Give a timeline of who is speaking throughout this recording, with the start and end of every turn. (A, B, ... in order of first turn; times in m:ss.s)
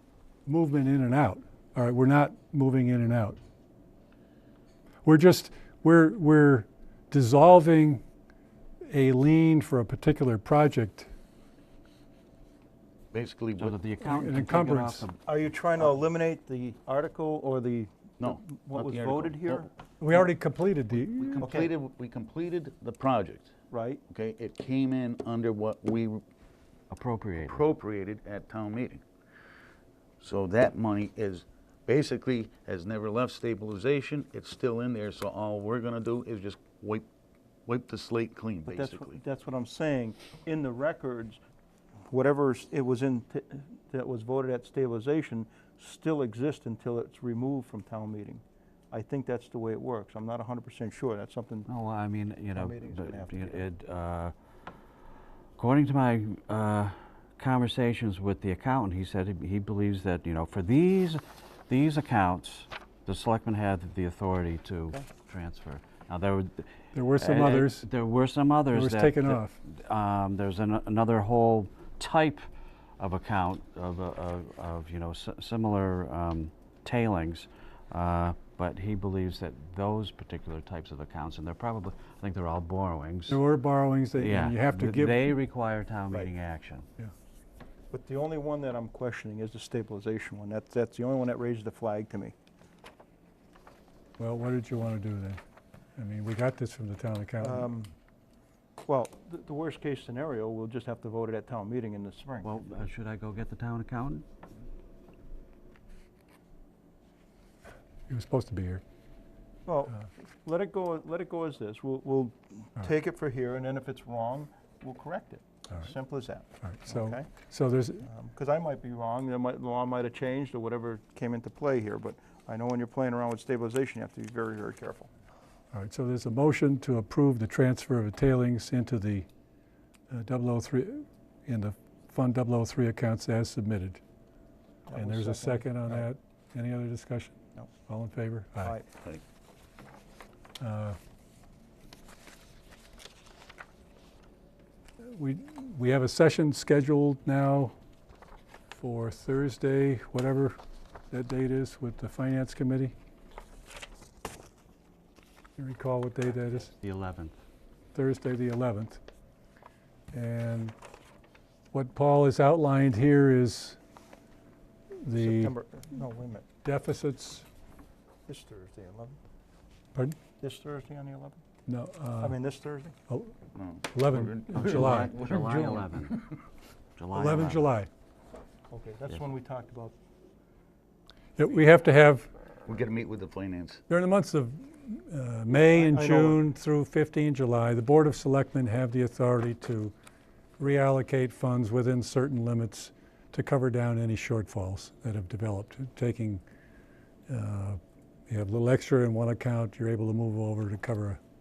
0:00.4-0:03.4 A
0:05.0-0:08.0 A
0:08.8-0:11.1 A
0:13.1-0:13.7 B
0:13.6-0:15.2 C
0:14.0-0:15.1 A
0:15.2-0:19.7 D
0:18.2-0:19.6 B
0:20.0-0:21.4 A
0:21.1-0:23.5 B
0:21.4-0:21.7 D
0:23.7-0:24.0 D
0:24.1-0:26.2 B
0:26.9-0:27.6 C
0:27.4-0:29.0 B
0:30.2-0:37.1 B
0:37.6-0:39.2 B
0:38.7-0:41.4 D
0:42.1-0:51.7 D
0:51.7-0:54.3 C
0:52.5-0:53.7 D
0:55.6-1:12.4 C
1:06.9-1:07.9 A
1:08.7-1:09.6 A
1:13.0-1:23.4 C
1:23.3-1:25.3 A
1:24.2-1:26.9 C
1:27.9-1:32.3 D
1:34.2-1:35.4 A
1:36.0-1:37.7 A
1:37.4-1:37.9 D
1:38.8-1:42.9 D
1:42.4-1:44.2 C
1:48.1-1:48.8 A
1:49.6-1:57.3 D
1:56.6-1:58.0 A
1:58.0-2:05.1 D
2:05.7-2:09.3 A
2:10.1-2:14.0 A
2:14.8-2:16.1 D
2:14.9-2:17.4 A
2:17.9-2:18.7 A
2:18.6-2:18.9 D
2:20.6-2:21.0 A
2:25.0-2:27.7 A
2:28.7-2:30.6 A
2:31.1-2:32.9 A
2:35.6-2:36.7 A
2:36.8-2:37.3 C
2:37.9-2:39.0 A
2:40.1-2:40.7 A
2:41.7-2:43.8 A
2:45.0-2:45.5 A
2:45.2-2:46.4 D
2:46.6-2:47.4 A
2:48.2-2:49.2 D
2:50.4-2:51.4 D
2:51.7-2:52.4 A
2:52.2-2:52.9 D
2:53.1-2:53.3 A
2:53.5-2:56.2 B
2:53.9-2:55.2 A
2:54.5-2:56.2 C
2:57.0-2:57.7 C
2:57.1-2:57.9 A
2:58.7-2:59.9 D
3:01.4-3:02.3 A
3:02.6-3:03.8 B
3:03.9-3:09.9 A
3:05.6-3:06.4 D
3:10.6-3:16.4 A
3:17.3-3:21.2 A